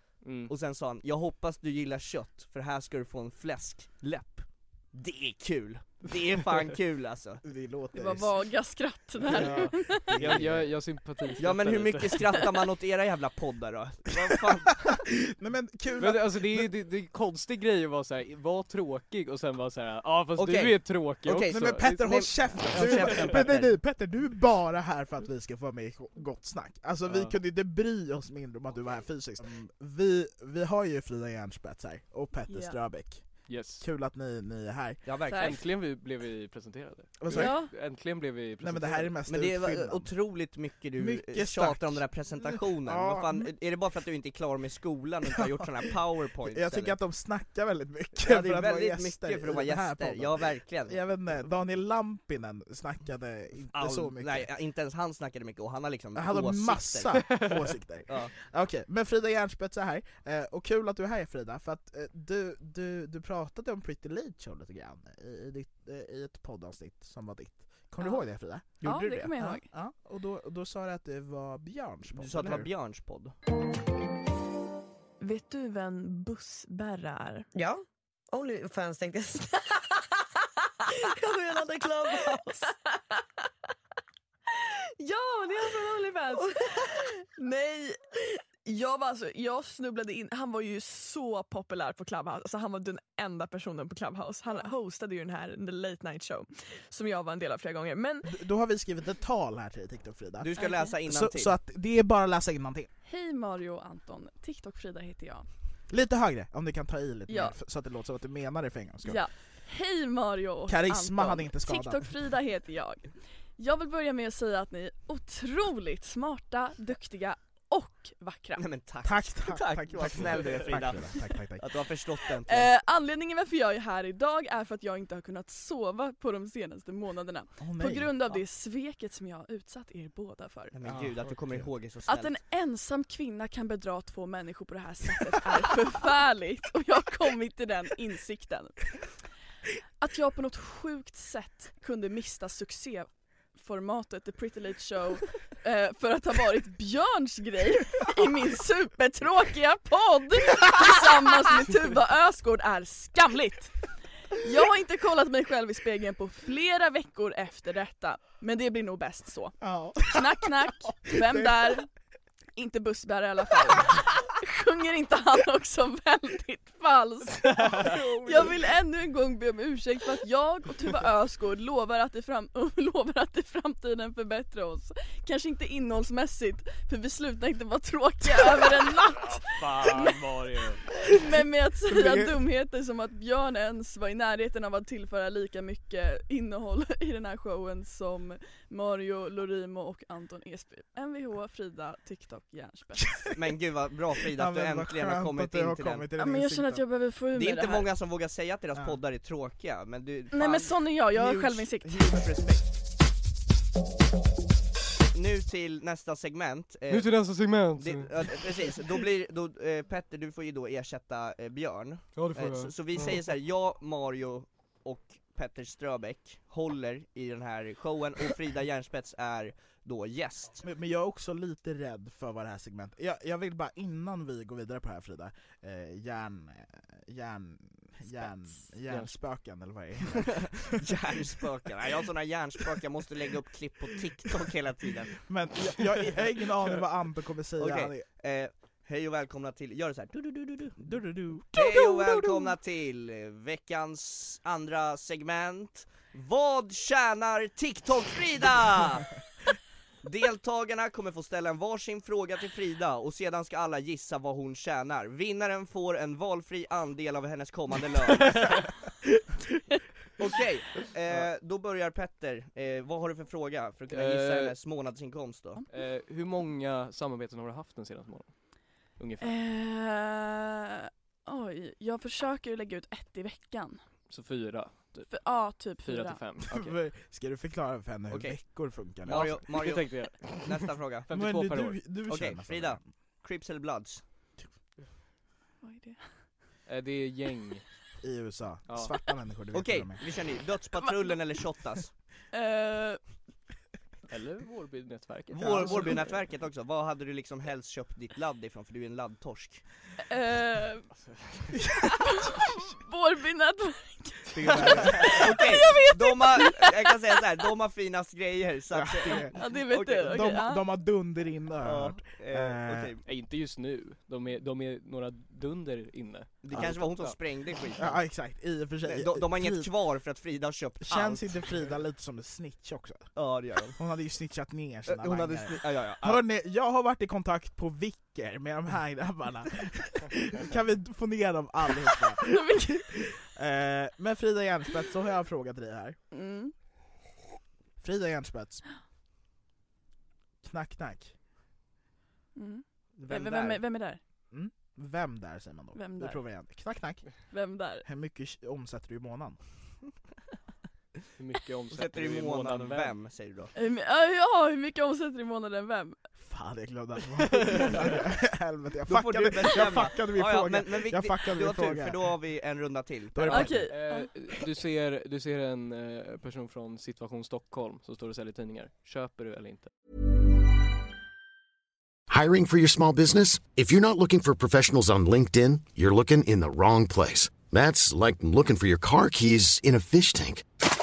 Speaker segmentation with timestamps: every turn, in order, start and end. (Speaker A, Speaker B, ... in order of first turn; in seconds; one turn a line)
Speaker A: 0.2-0.5
Speaker B: 0.5-7.4
Speaker C: 7.4-8.3
Speaker D: 7.9-10.2
Speaker A: 9.3-12.4
Speaker C: 9.3-10.7
Speaker B: 10.2-10.6
Speaker B: 11.4-15.0
Speaker C: 14.9-16.7
Speaker A: 16.0-23.5
Speaker B: 20.4-23.8
Speaker C: 21.4-35.0
Speaker A: 27.1-27.4
Speaker D: 32.5-32.8
Speaker A: 33.5-33.9
Speaker B: 35.0-35.6
Speaker D: 35.3-35.6
Speaker A: 35.4-39.1
Speaker C: 37.2-37.6
Speaker D: 37.3-37.7
Speaker C: 38.6-40.1
Speaker B: 39.3-47.0
Speaker C: 41.0-43.5
Speaker C: 45.3-54.5
Speaker B: 48.2-51.1
Speaker B: 53.7-57.5
Speaker C: 56.1-72.7
Speaker B: 58.1-58.3
Speaker D: 68.0-68.2
Speaker D: 68.8-69.7
Speaker B: 68.8-69.2
Speaker B: 72.2-73.3
Speaker D: 75.2-77.5
Speaker E: 78.3-79.5
Speaker E: 81.3-82.4
Speaker D: 82.1-82.8
Speaker D: 84.6-98.3
Speaker C: 98.2-102.9
Speaker B: 100.4-101.6
Speaker D: 100.6-100.9
Speaker D: 103.0-105.5
Speaker C: 105.9-109.3
Speaker D: 107.3-107.5
Speaker D: 109.0-118.6
Speaker C: 110.7-112.2
Speaker B: 118.6-122.7
Speaker C: 119.0-121.6
Speaker D: 122.5-130.8
Speaker C: 127.6-128.1
Speaker B: 130.7-132.4
Speaker C: 130.8-131.7
Speaker D: 132.1-138.9
Speaker D: 140.0-161.9
Speaker C: 159.6-161.9
Speaker D: 162.6-180.4
Speaker C: 167.6-168.7
Speaker A: 167.6-167.9
Speaker A: 179.4-180.8
Speaker D: 181.0-193.3
Speaker C: 181.9-182.3
Speaker B: 193.3-196.1
Speaker C: 194.3-196.8
Speaker D: 196.2-197.9
Speaker B: 197.3-202.6
Speaker D: 200.3-202.3
Speaker B: 205.1-220.6
Speaker A: 206.9-208.7
Speaker A: 212.2-213.2
Speaker C: 220.6-230.8
Speaker A: 228.9-229.1
Speaker B: 230.4-235.2
Speaker C: 235.3-238.1
Speaker B: 237.6-249.1
Speaker C: 240.8-242.5
Speaker B: 250.0-258.6
Speaker A: 258.2-258.7
Speaker B: 260.2-265.6
Speaker A: 263.9-264.6
Speaker A: 265.7-269.3
Speaker D: 269.2-273.8
Speaker A: 274.1-275.3
Speaker D: 275.1-276.2
Speaker A: 275.8-276.8
Speaker C: 276.5-279.4
Speaker B: 278.1-281.1
Speaker A: 279.1-281.8
Speaker C: 281.1-282.9
Speaker B: 282.1-284.1
Speaker D: 285.6-286.2
Speaker A: 286.7-287.6
Speaker C: 288.0-290.0
Speaker A: 288.7-288.9
Speaker B: 289.5-291.9
Speaker D: 292.3-293.1
Speaker A: 294.1-296.2
Speaker B: 295.3-299.6
Speaker D: 300.1-300.9
Speaker A: 300.9-301.6
Speaker C: 301.6-302.1
Speaker D: 301.8-306.8
Speaker C: 304.3-305.3
Speaker A: 304.6-304.8
Speaker B: 305.1-310.1
Speaker C: 308.7-312.9
Speaker D: 309.3-310.6
Speaker B: 311.6-313.0
Speaker A: 313.1-317.2
Speaker B: 316.4-318.0
Speaker C: 317.8-319.7
Speaker B: 318.8-321.4
Speaker C: 320.8-323.1
Speaker B: 323.1-323.8
Speaker C: 323.8-336.0
Speaker B: 324.9-326.2
Speaker D: 332.3-332.9
Speaker D: 336.1-336.5
Speaker C: 337.8-338.6
Speaker C: 340.4-341.1
Speaker D: 342.4-344.0
Speaker B: 343.0-343.6
Speaker C: 344.3-347.3
Speaker D: 345.8-346.2
Speaker D: 347.3-347.9
Speaker C: 347.8-349.4
Speaker A: 351.2-352.9
Speaker B: 351.7-353.5
Speaker D: 353.6-356.0
Speaker C: 356.2-362.0
Speaker B: 358.9-363.5
Speaker C: 363.1-363.7
Speaker D: 363.3-364.1
Speaker A: 363.7-369.7
Speaker F: 372.1-380.5